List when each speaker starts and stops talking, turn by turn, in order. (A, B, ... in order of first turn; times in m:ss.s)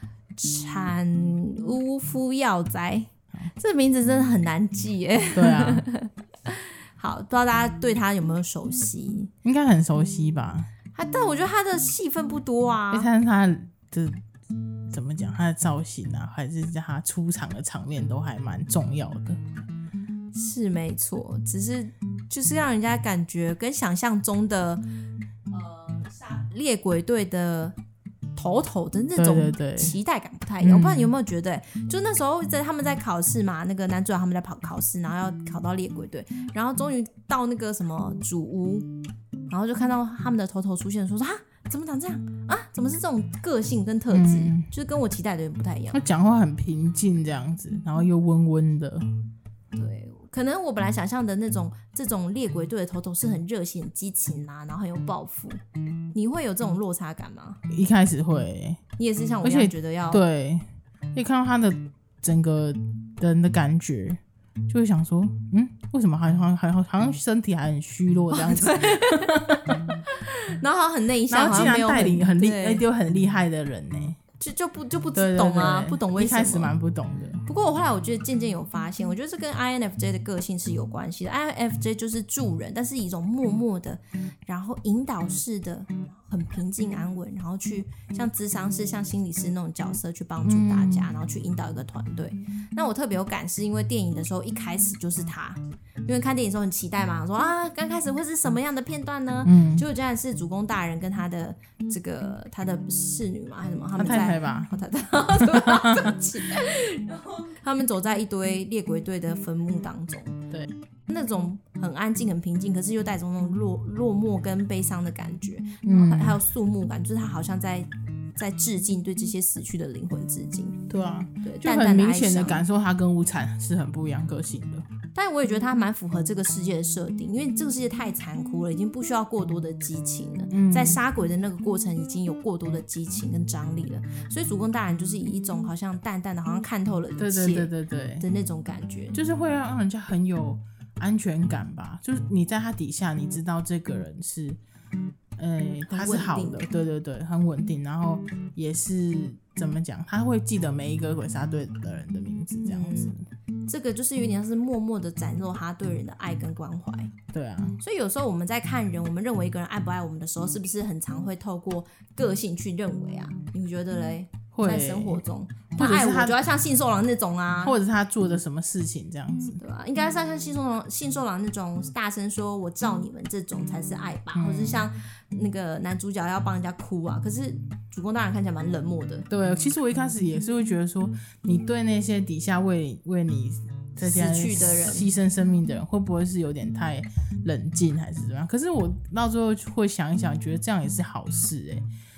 0:00.4-0:09.3 A
0:05.3-0:05.9 B
0:09.4-0:10.7 B
0:10.9-0:13.1 A
0:12.9-0:14.2 B
0:14.9-0:19.4 B
0:20.3-0:24.8 A
0:25.5-0:27.8 A
0:28.4-0:38.9 A
0:29.2-0:30.0 B
0:30.6-0:31.1 B
0:39.5-0:46.0 A
0:44.1-0:44.7 B
0:45.9-0:49.0 B
0:49.7-0:55.6 A
0:56.1-0:57.6 A
0:57.7-0:58.8 B
0:59.0-1:00.2 A
0:59.4-1:09.9 B
1:08.3-1:12.8 A
1:11.3-1:14.2 B
1:14.4-1:16.7 A
1:15.2-1:17.4 B
1:17.4-1:50.4 A
1:30.4-1:31.1 B
1:39.4-1:39.8 B
1:44.0-1:44.7 B
1:45.4-1:46.2 B
1:51.1-2:00.8 A
1:55.8-1:56.4 B
2:00.9-2:04.9 B
2:01.4-2:02.6 A
2:05.1-2:19.2 A
2:10.5-2:11.0 B
2:17.2-2:18.2 B
2:19.1-2:24.6 B
2:25.4-2:33.2 B
2:25.9-2:26.7 A
2:32.6-2:33.2 A
2:33.7-2:37.2 A
2:37.3-2:37.8 B
2:37.8-2:47.8 A
2:44.5-2:45.2 B
2:45.8-2:46.4 B
2:47.6-2:49.6 B
2:49.6-2:59.3 A
2:54.3-2:54.9 B
2:59.3-3:11.9 B
3:04.0-3:05.1 A